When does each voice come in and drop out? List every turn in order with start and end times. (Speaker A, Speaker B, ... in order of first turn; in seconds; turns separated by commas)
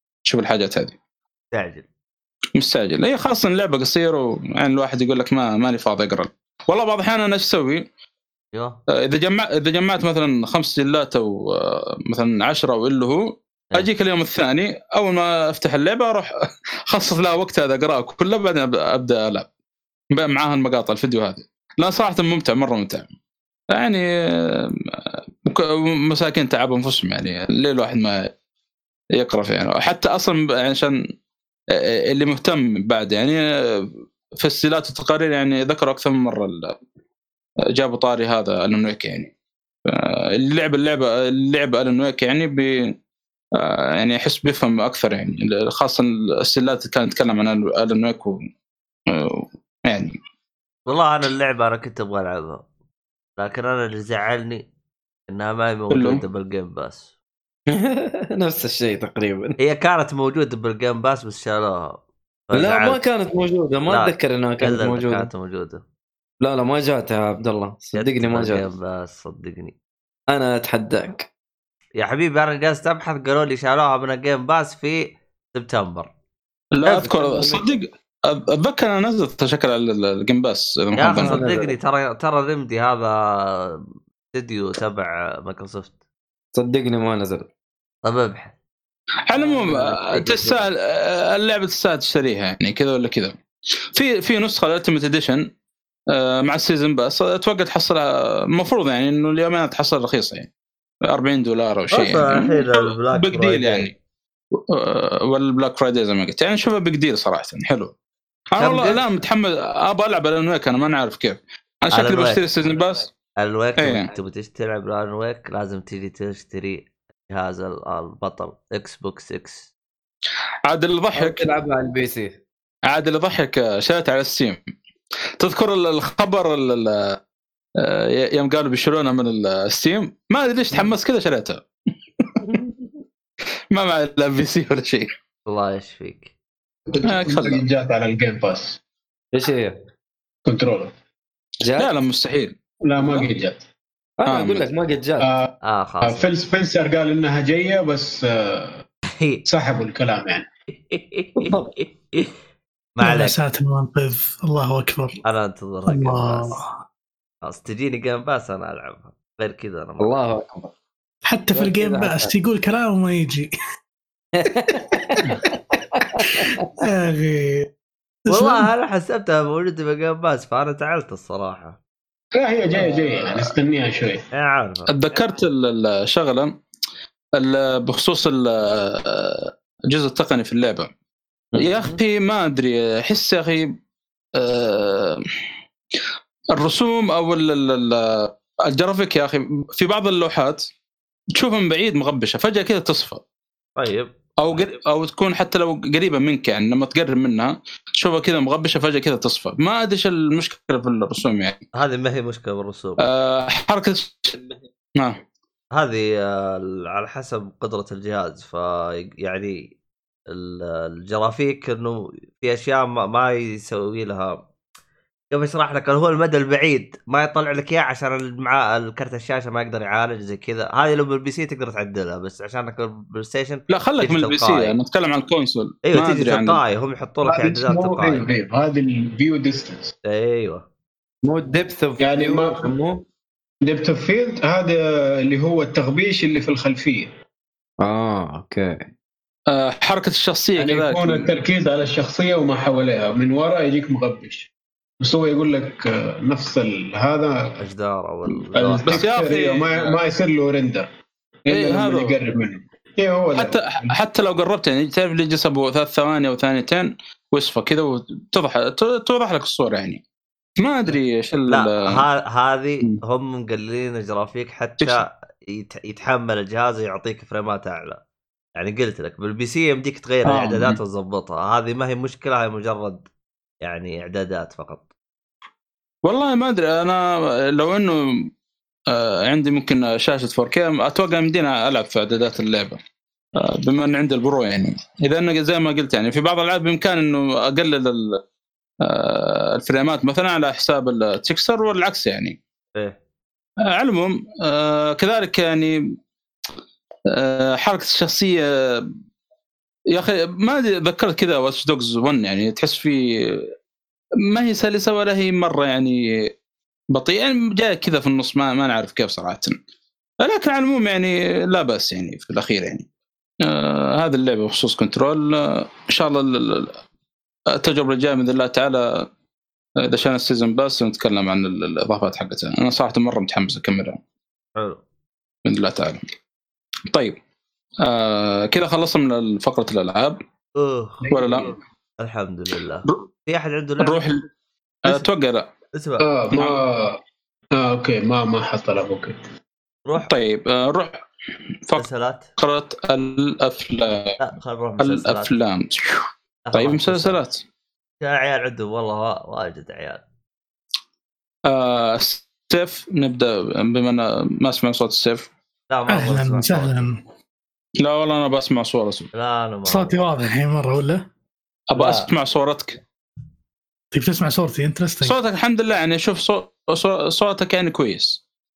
Speaker A: 0.3-0.9, Speaker B: 1.5-1.8, Speaker A: 2.6-7.8, Speaker B: 8.5-8.8, Speaker A: 9.0-16.3, Speaker A: 16.9-19.5, Speaker A: 20.1-23.1, Speaker A: 23.7-24.8, Speaker A: 25.4-28.3, Speaker A: 29.2-31.0, Speaker A: 31.8-33.9, Speaker A: 34.4-36.7, Speaker A: 37.7-39.3, Speaker A: 39.9-42.9, Speaker A: 43.6-48.4, Speaker A: 49.1-50.1, Speaker B: 50.9-52.6, Speaker B: 53.4-54.6, Speaker B: 55.3-57.1, Speaker A: 55.9-56.2, Speaker C: 57.7-59.5, Speaker B: 59.6-62.0, Speaker B: 62.5-63.0, Speaker C: 62.5-65.3, Speaker B: 63.9-65.8, Speaker C: 66.4-68.7, Speaker B: 67.9-69.7, Speaker C: 70.3-71.3, Speaker B: 72.0-76.1, Speaker A: 76.7-81.4, Speaker C: 76.9-77.6, Speaker B: 81.0-85.9, Speaker C: 81.1-81.7, Speaker C: 86.5-87.5, Speaker B: 88.0-88.5, Speaker A: 89.3-93.3, Speaker C: 89.4-90.6, Speaker A: 93.9-95.4, Speaker A: 96.1-100.5, Speaker A: 101.1-103.9, Speaker B: 101.9-103.9, Speaker A: 104.7-107.9, Speaker A: 108.5-113.1, Speaker B: 108.6-109.0, Speaker B: 111.9-112.4, Speaker B: 113.4-119.6, Speaker A: 113.8-114.1, Speaker A: 120.7-121.5, Speaker C: 121.1-122.3, Speaker A: 122.9-124.6, Speaker A: 125.4-127.2, Speaker A: 127.8-131.6, Speaker C: 132.4-132.8, Speaker A: 133.7-135.1, Speaker B: 135.4-136.3, Speaker D: 136.9-138.8, Speaker A: 137.1-137.6, Speaker C: 139.3-139.7, Speaker D: 140.4-140.9, Speaker C: 141.6-141.9, Speaker A: 141.8-142.5, Speaker D: 142.8-143.6, Speaker C: 144.2-145.3, Speaker A: 144.2-144.7, Speaker D: 145.2-145.5, Speaker B: 145.6-146.4, Speaker D: 146.0-148.8, Speaker B: 149.1-149.4, Speaker D: 149.4-150.4, Speaker B: 150.9-152.3, Speaker C: 151.4-151.7, Speaker B: 153.0-153.4, Speaker E: 153.0-155.2, Speaker B: 155.2-156.6, Speaker E: 155.9-156.7, Speaker B: 157.4-160.1, Speaker C: 160.0-160.7, Speaker E: 161.2-163.5, Speaker C: 161.5-162.3, Speaker C: 164.3-165.4, Speaker E: 165.2-165.6, Speaker C: 165.9-166.7, Speaker E: 166.3-167.7, Speaker E: 168.3-168.7, Speaker B: 168.3-171.8, Speaker D: 172.3-174.2, Speaker B: 174.3-174.9, Speaker A: 174.9-176.5, Speaker A: 177.4-180.9, Speaker C: 181.5-182.0, Speaker A: 181.6-183.7, Speaker A: 184.4-185.2, Speaker A: 186.6-190.6, Speaker A: 191.3-193.2, Speaker B: 193.8-194.1, Speaker A: 194.4-201.6, Speaker B: 201.7-203.1, Speaker A: 203.0-204.4, Speaker B: 205.7-209.7, Speaker B: 210.3-214.4, Speaker B: 215.3-224.7, Speaker A: 223.7-226.6, Speaker B: 225.8-228.2, Speaker D: 227.2-229.9, Speaker B: 230.0-230.6, Speaker C: 231.2-233.0, Speaker D: 232.0-232.7, Speaker D: 233.6-237.1, Speaker C: 237.8-238.8, Speaker A: 239.5-241.3, Speaker D: 240.6-244.5, Speaker D: 245.0-247.6, Speaker B: 247.6-249.1, Speaker D: 248.5-250.9, Speaker A: 248.9-250.0, Speaker D: 251.4-253.9, Speaker A: 251.5-252.2, Speaker A: 253.3-260.0, Speaker A: 260.6-262.0, Speaker B: 261.5-268.0, Speaker B: 268.6-273.0, Speaker A: 270.2-270.8, Speaker B: 273.6-274.8, Speaker A: 276.0-277.0, Speaker A: 277.5-278.0, Speaker A: 278.9-282.8, Speaker A: 283.4-288.2, Speaker A: 288.8-292.4, Speaker A: 293.7-295.8, Speaker A: 297.1-298.9, Speaker A: 299.9-303.4, Speaker A: 304.3-306.3, Speaker A: 306.9-309.6, Speaker A: 310.2-312.8, Speaker A: 313.4-316.8, Speaker A: 317.5-319.0, Speaker A: 319.8-324.0, Speaker B: 324.6-324.8, Speaker A: 325.4-326.0, Speaker A: 327.8-330.2, Speaker B: 330.6-331.4, Speaker D: 331.0-331.6, Speaker A: 331.1-331.5, Speaker B: 332.0-334.1, Speaker A: 333.8-334.2, Speaker A: 334.8-335.5, Speaker B: 335.7-336.1, Speaker D: 336.0-337.0, Speaker A: 336.3-336.6, Speaker D: 337.5-339.2, Speaker A: 340.0-341.0, Speaker B: 341.8-342.3, Speaker A: 342.4-344.2, Speaker B: 344.2-345.3, Speaker A: 344.8-346.0, Speaker B: 346.4-347.2, Speaker A: 346.5-347.4, Speaker B: 348.0-350.0, Speaker A: 351.4-355.3, Speaker B: 355.7-356.9, Speaker E: 355.9-357.0, Speaker A: 357.8-359.1, Speaker B: 359.1-360.0, Speaker E: 359.6-361.0, Speaker A: 361.7-362.8, Speaker B: 361.7-362.1, Speaker E: 363.9-365.1, Speaker A: 365.0-368.2